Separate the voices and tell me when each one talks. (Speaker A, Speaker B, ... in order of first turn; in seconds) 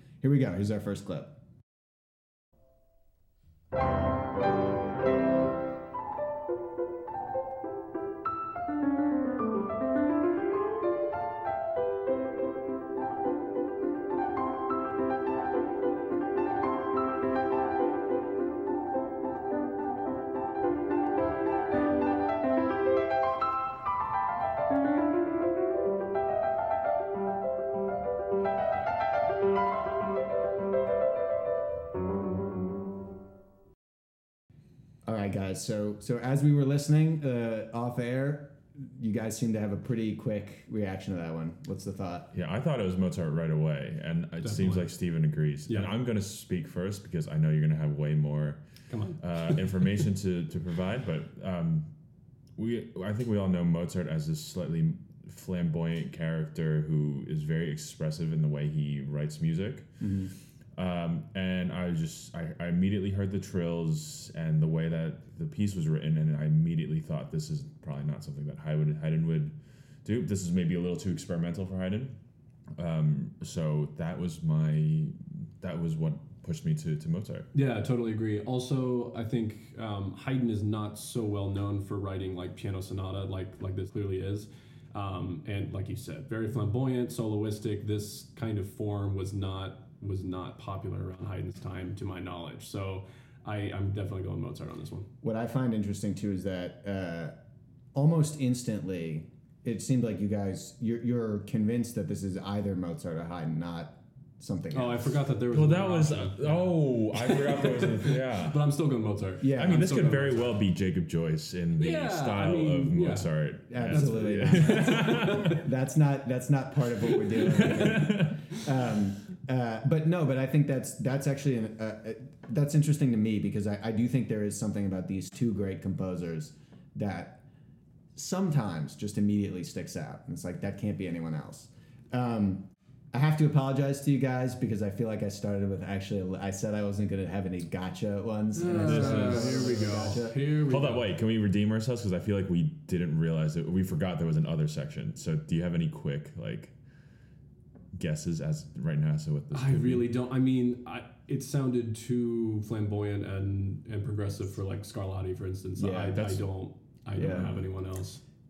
Speaker A: 0.2-1.3, 35.0-42.3, 60.0-60.3, 95.2-97.3, 97.9-105.2, 109.4-109.9, 113.7-127.4, 128.2-140.4, 155.8-156.4, 157.2-157.6
Speaker B: 42.3-48.6, 49.2-51.9, 52.6-72.1, 72.8-77.5, 105.5-108.7, 109.5-115.6, 117.5-118.4, 138.7-146.7, 147.9-150.1
Speaker C: 44.4-44.9, 48.9-49.2, 77.5-95.1, 104.7-110.6, 111.8-113.3, 113.9-115.6, 117.3-118.1, 138.6-141.1, 149.5-158.2